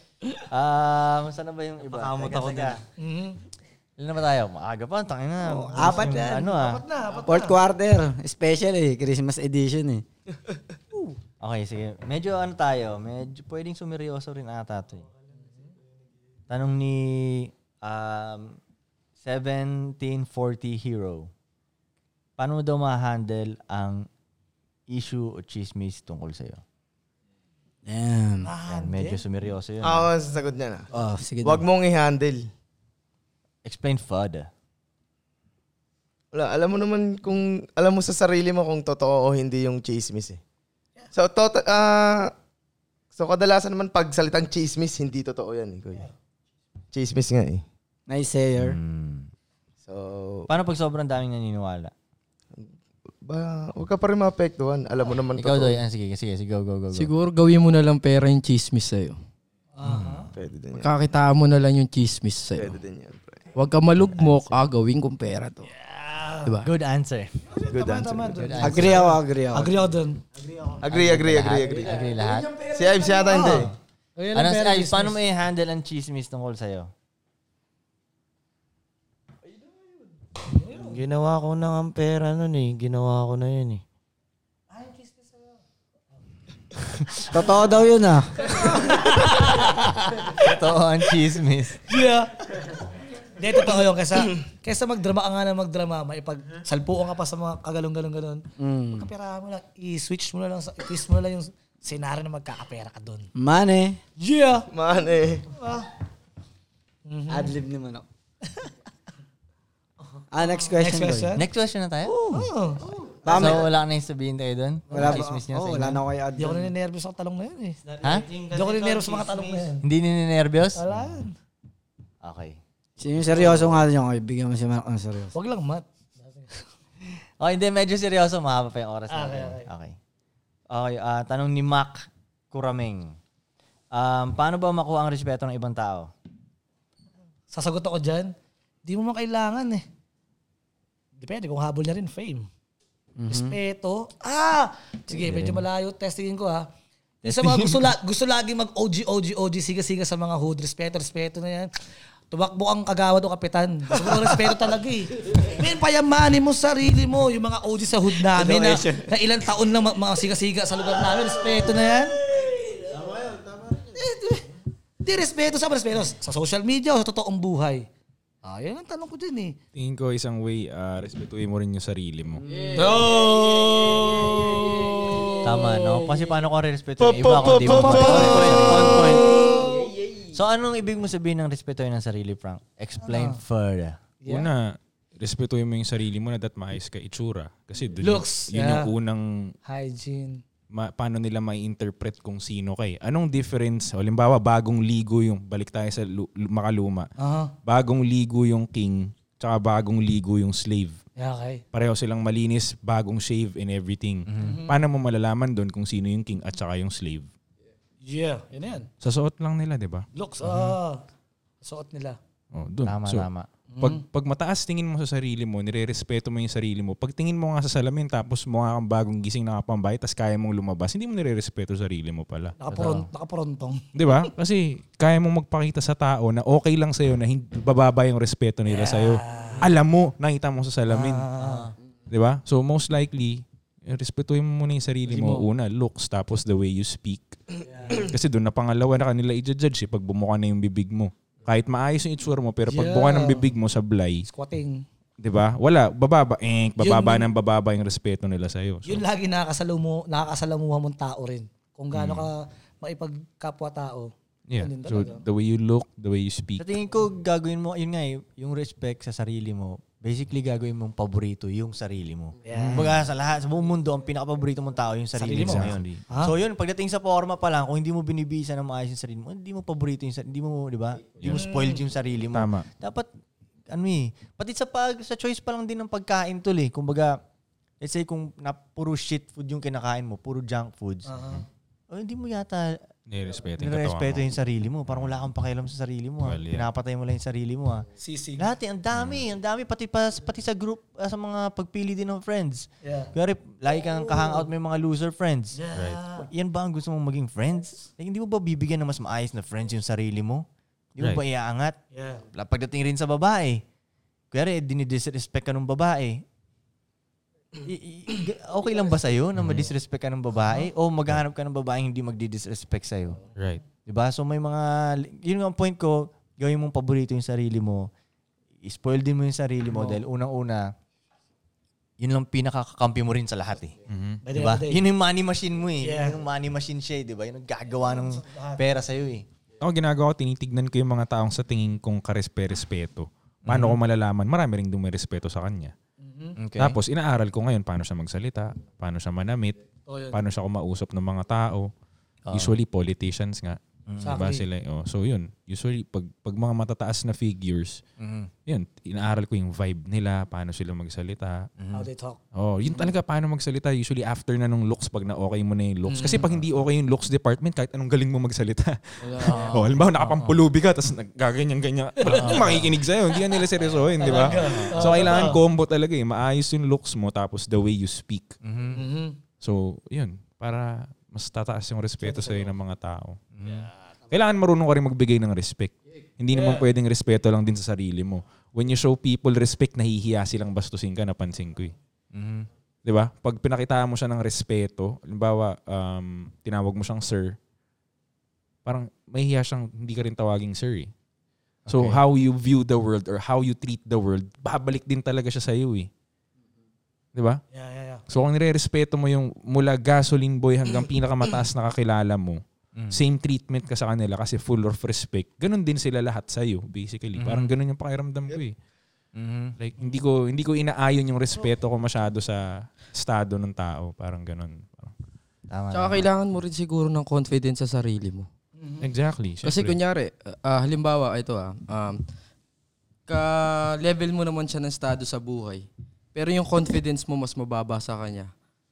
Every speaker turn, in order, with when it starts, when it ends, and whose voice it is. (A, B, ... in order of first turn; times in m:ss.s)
0:00.5-0:02.8 A
0:01.8-0:02.8 B
0:03.0-0:03.4 C
0:04.0-0:06.8 A
0:05.4-0:06.4 D
0:05.8-0:07.6 C
0:07.2-0:10.0 D
0:11.4-0:15.1 A
0:16.5-0:18.6 A
0:19.2-0:21.3 A
0:22.4-0:24.1 A
0:24.9-0:26.6 A
0:27.8-0:28.5 D
0:28.4-0:29.2 C
0:28.7-0:30.1 A
0:29.8-0:30.9 E
0:30.9-0:31.6 D
0:31.4-0:32.5 E
0:33.6-0:34.5 A
0:36.3-0:40.4 E
0:41.1-0:42.3 E
0:43.1-0:46.0 E
0:46.9-0:47.6 E
0:48.1-0:48.8 D
0:48.6-0:49.3 A
0:49.8-0:50.5 E
0:50.5-0:51.9 A
0:53.2-0:55.8 E
0:55.4-0:57.1 A
0:56.9-0:59.2 F
0:59.8-1:00.3 C
0:59.8-1:00.2 A
1:00.3-1:00.9 E
1:00.7-1:02.8 F
1:02.6-1:03.5 E
1:03.6-1:05.7 F
1:04.2-1:04.4 A
1:05.7-1:06.5 C
1:06.6-1:07.4 A
1:07.5-1:10.8 C
1:07.7-1:08.5 E
1:08.3-1:09.1 A
1:08.6-1:09.7 D
1:10.8-1:12.1 E
1:10.8-1:12.5 A
1:12.6-1:13.7 E
1:13.0-1:15.2 C
1:13.4-1:13.7 A
1:14.3-1:16.9 A
1:20.5-1:21.0 C
1:20.8-1:23.8 B
1:24.7-1:25.5 C
1:27.2-1:28.4 D
1:28.4-1:30.3 C
1:30.3-1:31.8 A
1:31.9-1:32.8 C
1:33.4-1:38.4 C
1:38.6-1:39.1 D
1:38.9-1:43.3 C
1:43.4-1:44.0 D
1:44.2-1:44.7 C
1:44.7-1:45.5 E
1:45.5-1:45.9 C
1:47.0-1:47.5 C
1:47.3-1:48.0 D
1:50.1-1:51.4 C
1:50.3-1:51.4 D
1:51.4-1:52.1 A
1:52.0-1:52.9 C
1:53.2-1:53.7 D
1:53.2-1:56.0 A
1:54.9-1:55.2 C
1:54.9-1:56.7 D
1:56.4-1:57.8 C
1:57.8-1:59.8 B
1:58.0-1:58.3 A
1:58.5-1:59.8 C
1:59.8-2:00.8 A
2:00.7-2:01.3 C
2:02.2-2:02.6 A
2:03.0-2:05.3 D
2:03.3-2:03.7 C
2:05.3-2:06.6 C
2:07.4-2:10.0 A
2:09.1-2:09.7 C
2:10.7-2:13.2 A
2:13.9-2:16.1 A
2:17.5-2:18.3 C
2:18.8-2:19.8 C
2:21.2-2:22.5 C
2:23.2-2:23.6 D
2:23.3-2:26.6 C
2:25.1-2:25.6 D
2:27.2-2:31.7 C
2:27.2-2:27.8 A
2:32.3-2:42.2 C
2:43.9-2:44.4 C
2:45.0-2:47.8 C
2:48.4-2:49.6 C
2:49.7-2:52.4 G
2:52.5-2:52.9 F
2:52.7-2:53.5 C
2:55.4-2:59.4 A
2:57.0-2:59.0 E
2:57.4-2:59.9 C
3:00.3-3:04.0 A
3:03.0-3:03.4 C
3:04.2-3:04.5 C
3:04.3-3:09.5 G
3:08.0-3:08.9 C
3:09.6-3:10.4 C
3:10.7-3:17.1 G
3:17.2-3:17.5 C
3:17.6-3:21.0 G
3:21.2-3:21.6 C
3:21.7-3:27.3 G
3:24.3-3:24.6 A
3:24.4-3:24.8 C
3:28.0-3:28.9 C
3:29.0-3:30.7 G
3:30.1-3:31.0 C
3:31.6-3:32.2 C
3:32.5-3:33.3 G
3:32.8-3:33.5 A
3:33.7-3:34.0 C
3:33.8-3:42.6 G
3:42.6-3:44.2 C
3:42.7-3:43.1 A
3:43.9-3:51.3 G
3:48.6-3:49.7 C
3:50.9-3:51.7 C
3:51.4-3:51.7 A
3:52.1-4:04.3 G
3:55.1-3:55.5 C
3:57.6-3:58.1 C
4:02.6-4:03.5 C
4:04.2-4:04.8 C
4:05.2-4:09.0 G
4:06.8-4:07.3 C
4:08.8-4:15.2 C
4:11.9-4:12.2 G
4:14.5-4:16.7 G
4:16.6-4:33.1 A
4:22.4-4:22.9 C
4:22.5-4:22.9 G
4:25.2-4:26.3 C
4:25.4-4:25.8 G
4:31.2-4:31.8 C
4:32.3-4:32.7 G
4:33.7-4:37.2 A
4:37.8-4:41.4 A
4:41.0-4:41.4 C
4:41.9-4:42.8 A
4:43.1-4:44.3 G
4:43.6-4:47.8 A
4:46.2-4:46.7 G
4:48.0-4:48.5 C
4:48.4-4:55.6 A
4:48.9-4:49.2 G
4:52.8-4:53.1 C
4:53.7-4:54.5 C
4:55.5-4:56.3 C
4:55.7-4:56.0 G
4:56.2-5:00.4 A
5:01.0-5:01.8 A
5:01.9-5:02.2 C
5:02.3-5:03.6 A
5:04.3-5:06.2 A
5:07.6-5:13.2 A
5:09.4-5:09.7 G
5:13.4-5:13.6 G
5:13.8-5:17.9 A
5:18.6-5:20.7 A
5:19.7-5:20.0 C
5:22.0-5:23.8 A
5:23.9-5:24.2 G
5:24.2-5:24.8 C
5:24.3-5:29.2 A
5:25.8-5:26.2 C
5:27.8-5:28.7 C
5:29.6-5:35.7 G
5:33.4-5:33.8 A
5:36.0-5:36.4 C
5:36.4-5:36.8 A
5:36.6-5:39.6 G
5:39.9-5:40.2 C
5:40.1-5:41.7 G
5:42.2-5:42.6 A
5:42.3-5:47.8 G
5:43.9-5:44.2 A
5:44.0-5:44.4 C
5:48.0-5:48.3 A
5:48.4-5:51.5 G
5:51.6-5:51.9 A
5:51.7-5:52.2 C
5:52.3-6:08.3 G
5:55.8-5:56.3 C
5:59.2-6:00.4 A
6:02.0-6:02.6 C
6:02.1-6:02.7 A
6:04.0-6:05.4 C
6:04.1-6:05.2 A
6:08.4-6:08.8 A
6:08.7-6:09.2 C
6:09.4-6:13.2 G
6:12.0-6:12.5 C
6:13.3-6:13.7 A
6:14.1-6:21.7 G
6:16.3-6:16.7 C
6:22.1-6:22.5 A
6:22.8-6:27.4 G
6:28.6-6:30.9 G
6:31.6-6:32.0 A
6:31.7-6:35.9 G
6:37.1-6:37.4 G
6:37.5-6:38.0 C
6:38.1-6:48.6 G
6:42.7-6:43.0 A
6:47.2-6:47.5 A
6:49.1-6:49.5 A
6:49.6-6:54.9 G
6:55.5-6:56.1 A
6:55.7-6:58.3 F
6:58.6-6:58.9 C
6:58.8-6:59.8 G
6:59.4-7:02.0 F
7:03.1-7:08.3 F